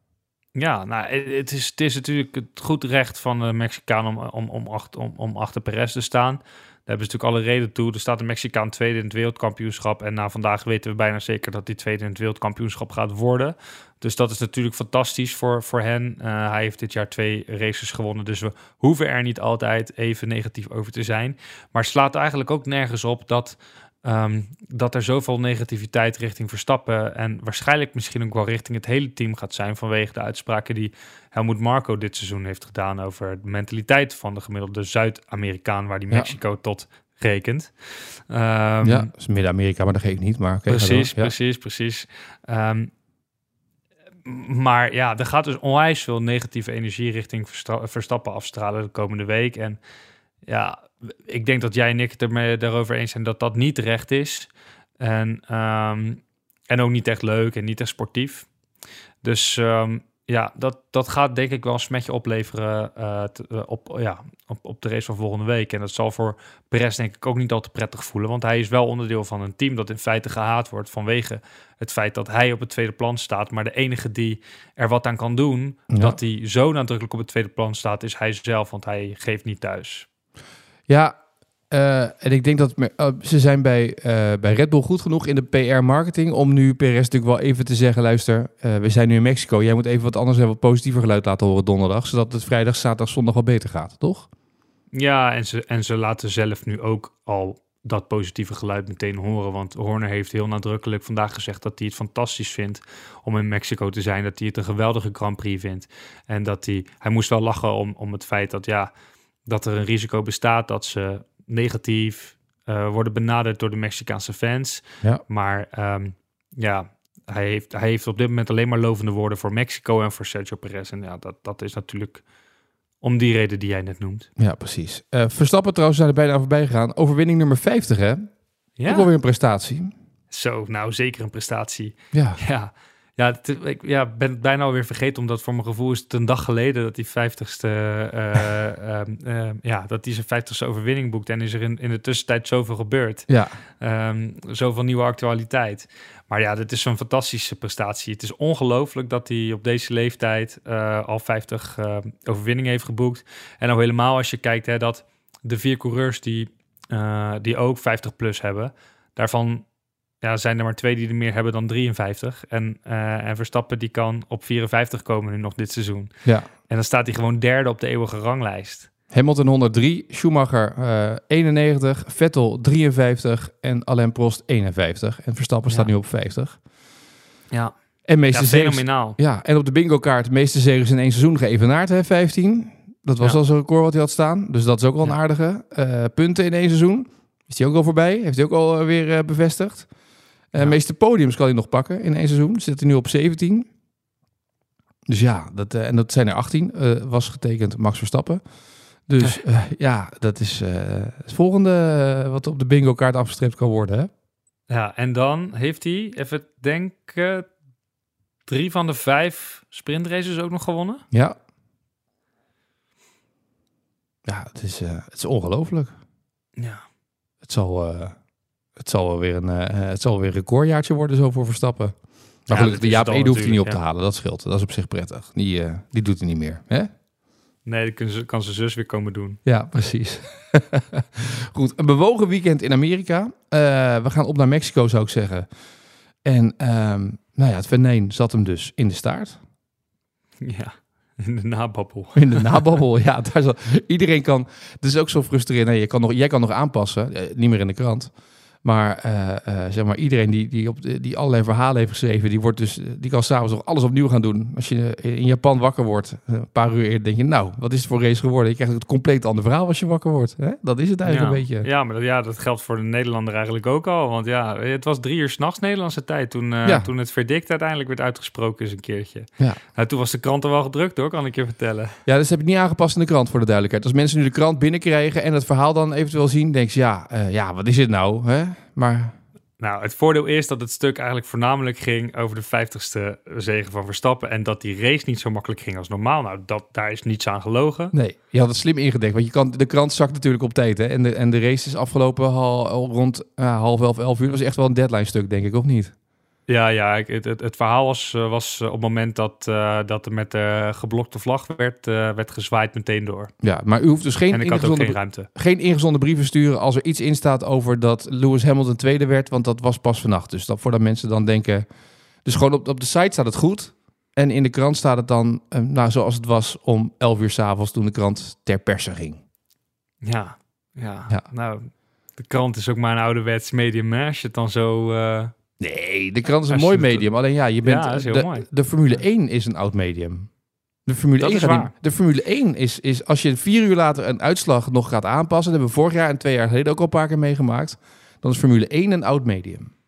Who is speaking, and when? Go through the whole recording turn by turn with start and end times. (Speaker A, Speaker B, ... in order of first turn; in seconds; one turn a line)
Speaker A: 0.6-39.1
Speaker B: 38.8-41.3
Speaker A: 40.7-42.9
Speaker A: 44.2-49.8
Speaker A: 50.5-58.5
Speaker A: 59.2-80.1
Speaker B: 75.9-76.2
Speaker B: 80.9-81.2
Speaker B: 81.7-94.3
Speaker A: 94.9-108.9
Speaker A: 109.5-122.2
Speaker A: 123.0-124.3
Speaker B: 124.4-128.3
Speaker A: 128.8-129.1
Speaker B: 128.8-129.9
Speaker A: 130.3-159.7
Speaker B: 132.1-132.4
Speaker B: 143.3-143.6
Speaker A: 160.2-168.9
Speaker B: 169.1-176.6
Speaker A: 177.5-179.2
Speaker B: 178.1-189.9
Speaker B: 190.5-193.7
Speaker B: 195.1-198.4
Speaker B: 199.1-204.1
Speaker A: 204.7-207.5
Speaker A: 208.5-211.0
Speaker B: 211.1-211.4
Speaker B: 214.2-215.9
Speaker A: 216.6-216.8
Speaker B: 217.4-218.2
Speaker B: 218.8-226.9
Speaker A: 222.5-223.8
Speaker A: 227.6-229.4
Speaker B: 229.4-235.5
Speaker B: 236.2-239.4
Speaker A: 240.4-242.7
Speaker B: 242.1-248.1
Speaker B: 248.6-261.7
Speaker A: 261.1-272.0
Speaker B: 272.1-279.1
Speaker A: 279.6-287.9
Speaker B: 287.9-295.9
Speaker A: 296.5-303.3
Speaker B: 303.4-311.7
Speaker A: 304.3-305.3
Speaker B: 312.2-319.2
Speaker A: 320.0-325.3
Speaker B: 325.6-330.3
Speaker A: 326.5-328.5
Speaker B: 330.9-339.7
Speaker A: 331.2-331.7